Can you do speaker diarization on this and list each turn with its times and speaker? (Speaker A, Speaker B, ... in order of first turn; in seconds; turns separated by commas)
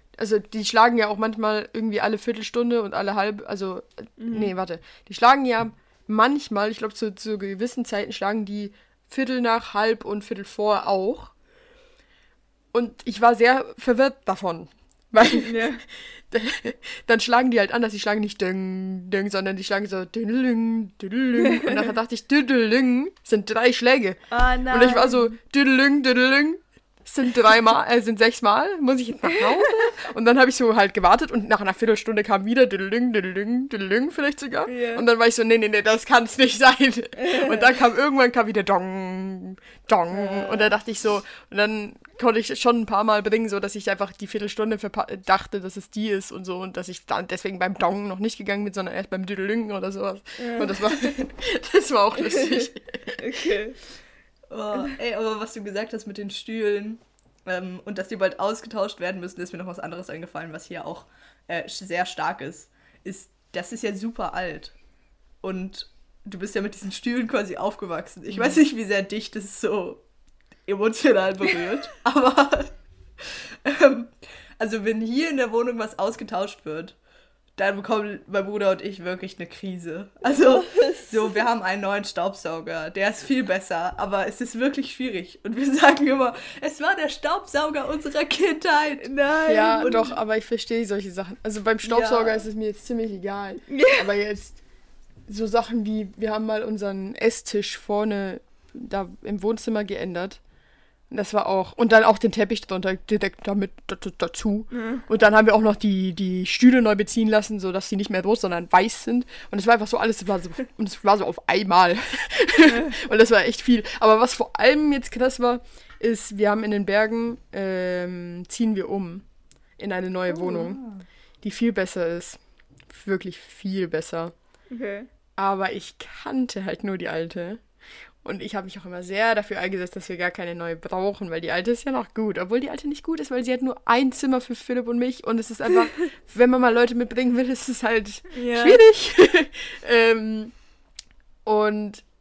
Speaker A: 0.2-11.3, Speaker B: 4.2-4.5, Speaker A: 12.7-53.2, Speaker B: 15.2-15.8, Speaker B: 24.3-25.3, Speaker B: 34.7-35.0, Speaker B: 37.2-37.7, Speaker B: 40.1-40.7, Speaker B: 50.4-51.1, Speaker B: 52.3-53.8, Speaker C: 54.5-64.8, Speaker C: 65.4-70.0, Speaker C: 70.7-77.0, Speaker C: 77.6-89.1, Speaker B: 80.5-81.1, Speaker B: 89.0-90.1, Speaker A: 89.5-94.6, Speaker C: 91.8-92.4, Speaker B: 93.7-94.1, Speaker A: 95.3-100.4, Speaker A: 101.1-119.3, Speaker B: 104.7-105.0, Speaker A: 119.8-120.8, Speaker C: 120.4-121.0, Speaker A: 121.4-124.3, Speaker B: 124.7-125.1, Speaker A: 125.4-127.6, Speaker A: 128.2-140.6, Speaker B: 138.3-138.8, Speaker A: 141.4-142.0